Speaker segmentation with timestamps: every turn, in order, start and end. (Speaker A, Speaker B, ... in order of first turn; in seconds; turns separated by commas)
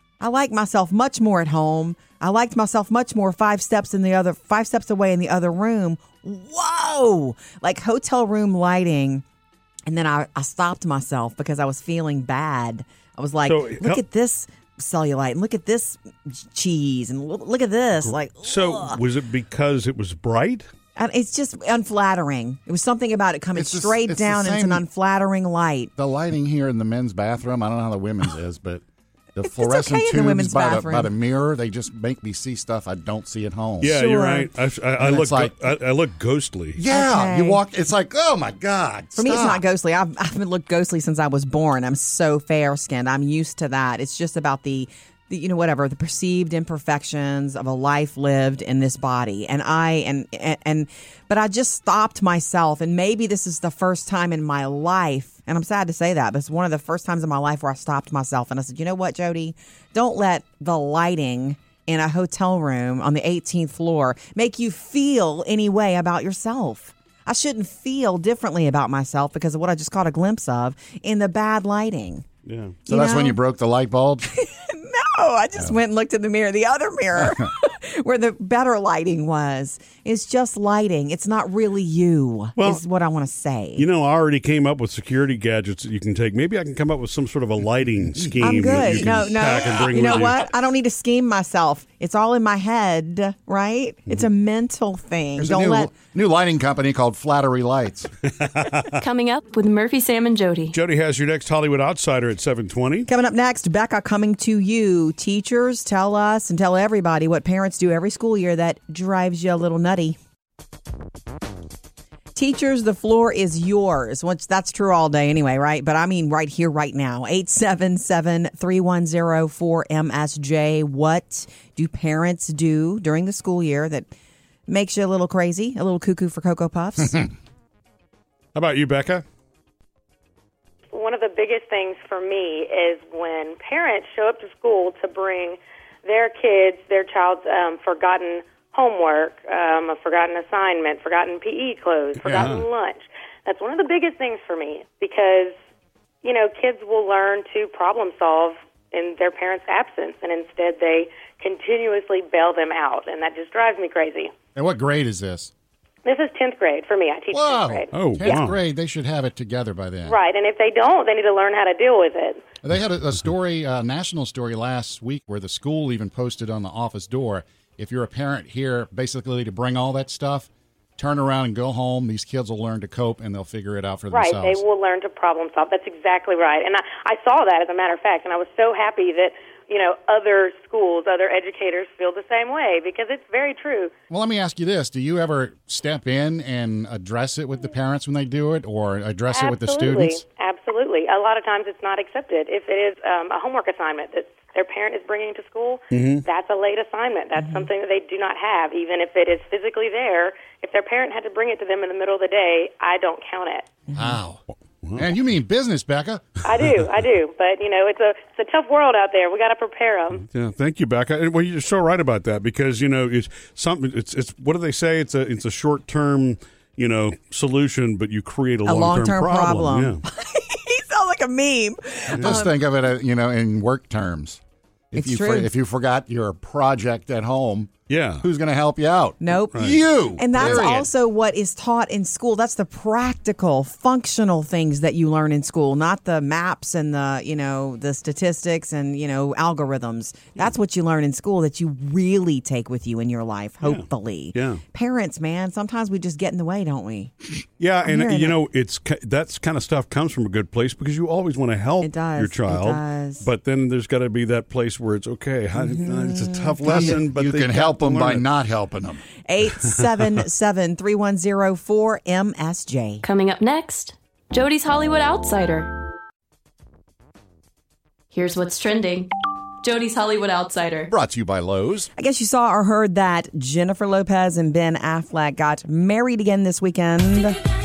Speaker A: 0.2-9.2, Speaker A: 9.9-19.0, Speaker B: 13.4-14.0, Speaker B: 18.1-20.7, Speaker A: 21.0-25.9, Speaker C: 23.6-24.9, Speaker C: 26.0-28.8, Speaker C: 29.4-34.0, Speaker A: 29.4-31.1, Speaker B: 33.8-36.8, Speaker A: 33.8-34.5, Speaker C: 35.0-35.6, Speaker C: 36.8-39.6, Speaker A: 36.9-37.6, Speaker A: 39.1-72.2, Speaker B: 72.5-72.8, Speaker A: 72.9-73.4, Speaker C: 72.9-74.3, Speaker A: 74.3-83.9, Speaker C: 77.2-77.5, Speaker B: 82.6-82.8, Speaker B: 83.8-90.5, Speaker C: 88.2-89.4, Speaker A: 88.4-95.9, Speaker C: 95.4-98.1, Speaker B: 98.3-99.0, Speaker D: 98.9-100.8, Speaker B: 100.7-103.1, Speaker A: 103.1-110.2, Speaker A: 112.3-124.1, Speaker A: 124.7-127.3, Speaker B: 128.5-129.2, Speaker E: 130.9-145.6, Speaker B: 142.2-142.7, Speaker E: 146.2-154.3, Speaker C: 154.6-155.5, Speaker E: 156.1-158.4, Speaker C: 157.3-160.2, Speaker B: 157.9-158.6, Speaker E: 160.1-162.4, Speaker C: 162.6-174.6, Speaker E: 174.1-183.9, Speaker C: 184.1-190.2, Speaker E: 189.3-203.7, Speaker B: 195.9-196.2, Speaker A: 197.4-197.7, Speaker A: 203.9-204.2, Speaker C: 203.9-204.4, Speaker B: 204.8-205.1, Speaker C: 204.9-206.4, Speaker E: 206.4-210.3, Speaker B: 210.2-220.0, Speaker A: 218.7-222.6, Speaker C: 222.2-224.4, Speaker C: 224.9-230.9, Speaker A: 224.9-225.5, Speaker B: 227.9-228.2, Speaker A: 229.2-247.1, Speaker B: 230.4-230.7, Speaker B: 243.6-244.6, Speaker B: 247.6-258.2, Speaker A: 247.8-248.4, Speaker A: 251.8-253.3, Speaker A: 255.6-257.0, Speaker C: 256.6-259.0, Speaker A: 259.3-263.0, Speaker D: 263.0-265.7, Speaker D: 268.1-269.1, Speaker D: 269.6-270.9, Speaker C: 270.9-271.9, Speaker A: 272.0-277.4